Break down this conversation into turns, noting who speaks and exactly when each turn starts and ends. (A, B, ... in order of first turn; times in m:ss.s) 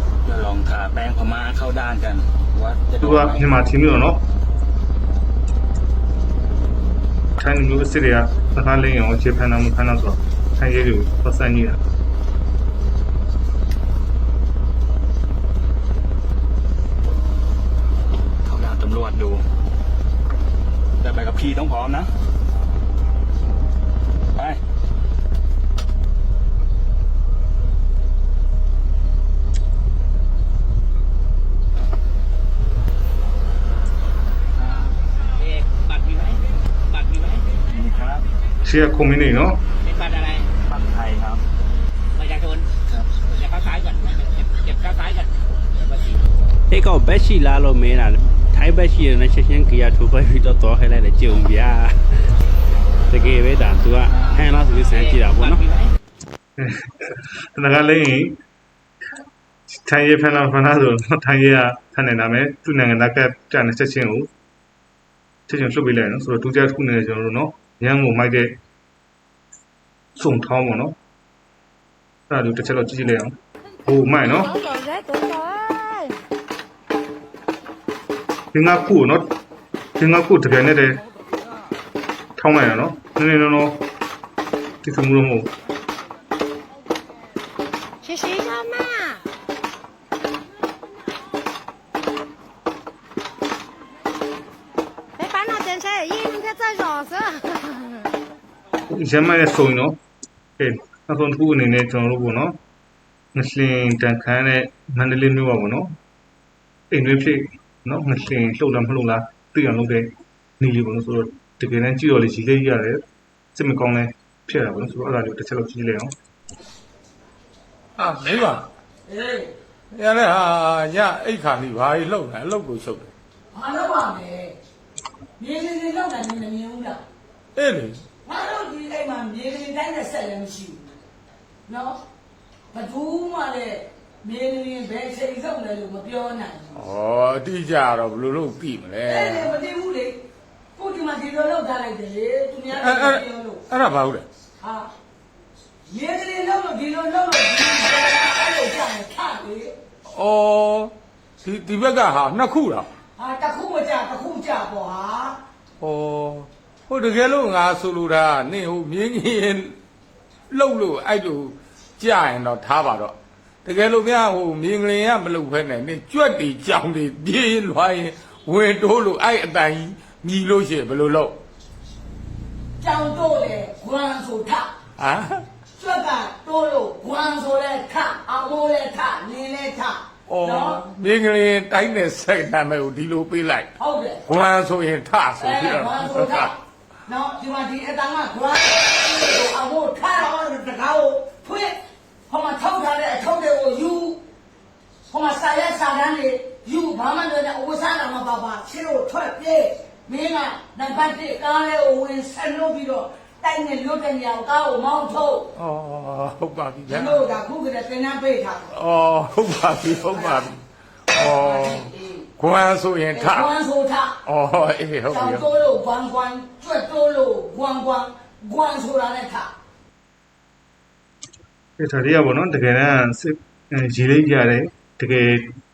0:00.2-0:03.5 A
0:03.0-0:04.2 B
0:07.4-0:11.8 B
0:18.4-0:19.4 A
0:21.0-0:22.1 A
0:35.4-0:37.6 C
0:37.7-0:38.2 A
0:38.6-0:39.6 B
0:39.8-0:40.5 C
0:40.7-0:41.4 A
0:42.1-0:42.7 C
0:43.2-0:46.2 C
0:46.7-0:51.9 D
0:53.1-0:55.8 D
0:56.6-0:58.4 B
0:59.7-1:04.3 B
1:05.5-1:08.6 B
1:10.2-1:10.9 B
1:12.3-1:14.5 B
1:14.2-1:16.2 E
1:18.5-1:19.3 B
1:20.0-1:21.0 B
1:22.4-1:23.8 B
1:24.8-1:25.5 B
1:28.0-1:29.2 E
1:35.2-1:38.1 E
1:38.9-1:40.0 B
1:40.6-1:42.6 B
1:43.3-1:45.9 B
1:46.9-1:53.0 B
1:53.5-1:56.1 B
1:58.0-1:58.7 F
1:59.1-1:59.5 G
1:59.9-2:03.1 F
2:03.5-2:04.6 G
2:05.4-2:07.0 G
2:07.5-2:08.0 F
2:08.2-2:11.0 G
2:11.7-2:12.0 G
2:12.7-2:16.9 G
2:16.8-2:19.5 F
2:19.0-2:20.2 G
2:20.8-2:23.6 G
2:22.8-2:24.2 F
2:24.6-2:24.9 G
2:25.9-2:29.8 G
2:30.1-2:32.9 F
2:33.2-2:35.4 G
2:35.8-2:39.7 F
2:40.5-2:51.4 F
2:52.8-2:54.7 G
2:55.0-2:55.4 F
2:55.8-3:00.8 G
3:00.3-3:03.7 F
3:03.8-3:04.2 G
3:04.3-3:06.4 F
3:05.4-3:11.8 G
3:12.3-3:14.2 G
3:15.1-3:25.5 G
3:25.6-3:27.2 F
3:26.9-3:28.7 G
3:28.7-3:30.6 F
3:30.0-3:30.5 G
3:31.1-3:33.5 F
3:31.2-3:32.2 G
3:33.1-3:34.2 G
3:34.2-3:35.4 F
3:35.1-3:39.5 G
3:41.8-3:45.6 B